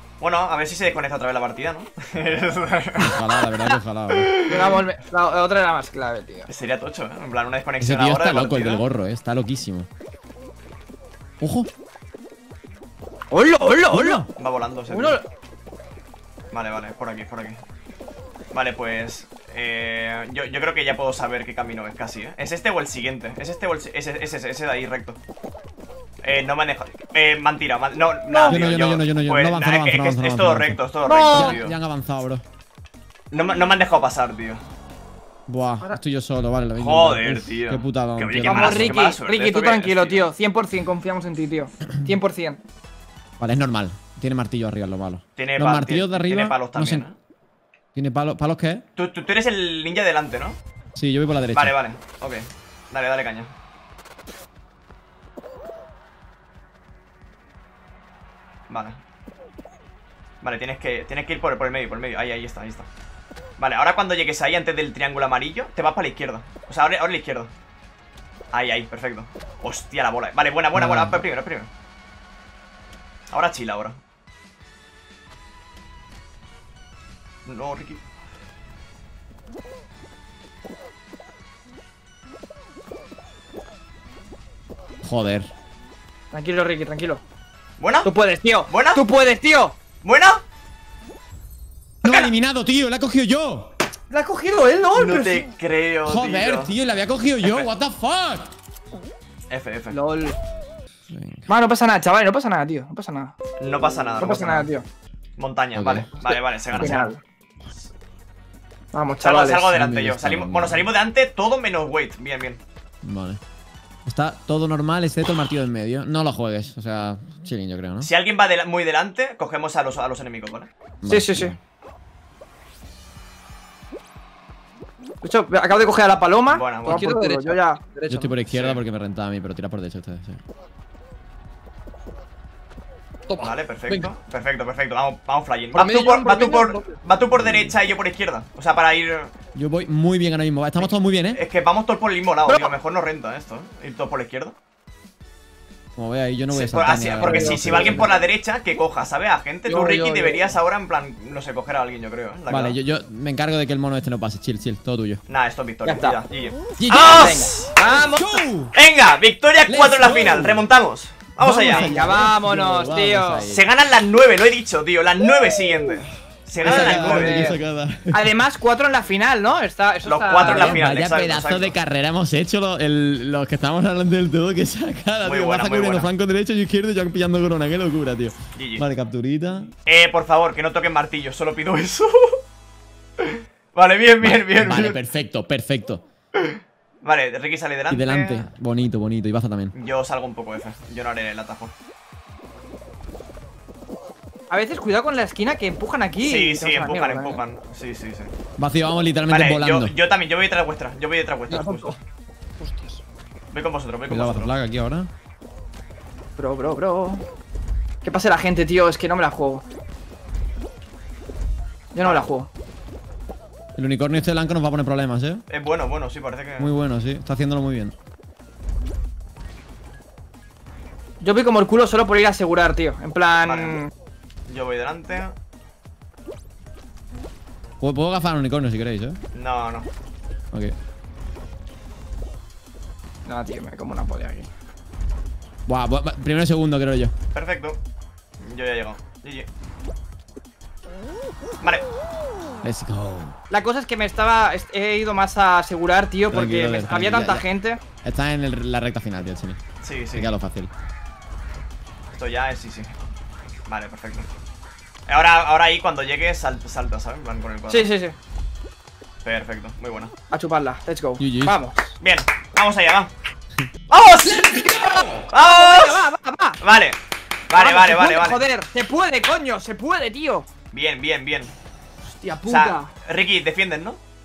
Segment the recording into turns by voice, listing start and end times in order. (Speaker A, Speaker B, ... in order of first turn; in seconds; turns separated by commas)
Speaker A: 0.2-3.2, Speaker B: 3.0-4.4, Speaker A: 4.2-4.8, Speaker C: 4.5-6.5, Speaker A: 6.5-8.8, Speaker B: 7.8-9.9, Speaker B: 11.4-11.7, Speaker C: 13.3-14.3, Speaker B: 13.9-14.3, Speaker A: 14.4-15.2, Speaker C: 14.9-15.3, Speaker A: 16.5-17.6, Speaker A: 18.5-25.2, Speaker A: 26.2-31.8, Speaker C: 28.3-28.7, Speaker B: 28.5-32.4, Speaker C: 31.1-31.6, Speaker A: 33.3-34.6, Speaker B: 35.5-39.0, Speaker A: 36.8-40.3, Speaker C: 38.4-42.6, Speaker B: 43.4-47.1, Speaker A: 45.4-47.1, Speaker B: 48.0-48.8, Speaker A: 49.0-50.6, Speaker B: 51.0-51.8, Speaker A: 51.5-53.5, Speaker A: 58.7-59.0, Speaker A: 60.4-62.9, Speaker A: 63.6-67.5, Speaker A: 68.5-71.7, Speaker B: 70.7-71.2, Speaker A: 73.3-74.0, Speaker A: 77.5-78.0, Speaker B: 85.0-85.5, Speaker C: 86.3-87.2, Speaker A: 87.8-88.1, Speaker C: 88.0-89.8, Speaker A: 88.7-89.0, Speaker A: 90.0-90.4, Speaker B: 92.0-93.7, Speaker C: 94.1-95.5, Speaker A: 95.0-96.7, Speaker B: 96.1-98.5, Speaker A: 97.4-97.7, Speaker A: 99.5-100.0, Speaker C: 99.9-100.4, Speaker B: 101.1-101.5, Speaker C: 101.5-103.3, Speaker A: 103.6-104.7, Speaker C: 104.2-104.8, Speaker A: 105.4-107.1, Speaker B: 105.8-106.1, Speaker B: 106.7-107.0, Speaker C: 106.7-107.2, Speaker C: 108.9-109.7, Speaker A: 109.2-112.6, Speaker B: 109.7-110.9, Speaker B: 113.0-113.4, Speaker B: 114.1-118.1, Speaker A: 118.0-120.7, Speaker B: 121.0-121.6, Speaker C: 121.1-121.5, Speaker C: 125.2-127.8, Speaker A: 126.5-127.0, Speaker D: 126.8-128.3, Speaker B: 128.1-130.4, Speaker A: 128.5-128.8, Speaker D: 133.3-134.1, Speaker A: 133.4-139.3, Speaker D: 135.8-137.0, Speaker B: 137.3-137.8, Speaker B: 139.6-141.4, Speaker A: 141.3-144.6, Speaker D: 142.5-142.7, Speaker B: 146.0-148.2, Speaker A: 146.5-152.8, Speaker D: 147.2-148.0, Speaker D: 149.7-150.5, Speaker B: 152.5-155.2, Speaker A: 155.3-157.7, Speaker C: 155.8-156.2, Speaker B: 156.8-158.7, Speaker C: 156.9-158.4, Speaker A: 158.7-162.0, Speaker B: 159.7-160.7, Speaker B: 161.4-163.6, Speaker C: 161.7-163.5, Speaker A: 163.5-167.6, Speaker C: 166.6-167.6, Speaker B: 166.6-168.3, Speaker C: 168.1-170.8, Speaker A: 170.0-171.8, Speaker B: 170.4-179.7, Speaker A: 175.2-176.1, Speaker A: 178.6-178.9, Speaker A: 179.8-182.4, Speaker A: 183.2-185.0, Speaker B: 184.2-186.0, Speaker A: 186.3-188.5, Speaker B: 187.9-189.7, Speaker A: 189.7-191.7, Speaker C: 194.5-197.4, Speaker A: 196.2-198.3, Speaker B: 198.6-199.9, Speaker A: 199.3-201.9, Speaker D: 201.5-202.0, Speaker D: 202.6-203.0, Speaker A: 203.5-204.5, Speaker B: 204.1-205.1, Speaker C: 206.4-207.2, Speaker C: 208.0-209.6, Speaker C: 211.9-212.5, Speaker A: 212.0-212.3, Speaker B: 213.8-215.4, Speaker A: 215.5-216.7, Speaker B: 216.6-217.9, Speaker C: 221.2-223.9, Speaker A: 223.4-223.8, Speaker A: 224.5-225.3, Speaker B: 227.8-229.2, Speaker A: 229.3-229.9, Speaker C: 233.3-234.5, Speaker B: 235.7-237.1, Speaker A: 237.3-237.8, Speaker A: 238.4-239.5, Speaker B: 242.6-243.3, Speaker C: 243.5-247.8, Speaker B: 246.3-247.4, Speaker B: 248.0-249.6, Speaker A: 249.8-250.3, Speaker B: 250.1-250.7, Speaker A: 252.1-252.9, Speaker A: 253.7-254.3, Speaker A: 255.1-257.9, Speaker C: 257.7-258.1, Speaker A: 259.2-260.1, Speaker C: 260.3-261.9, Speaker B: 261.2-261.6, Speaker A: 262.0-263.1, Speaker A: 263.9-267.0, Speaker C: 264.4-266.6, Speaker A: 267.5-268.4, Speaker C: 267.5-270.5, Speaker A: 270.7-271.5, Speaker C: 272.1-272.9, Speaker A: 272.5-274.0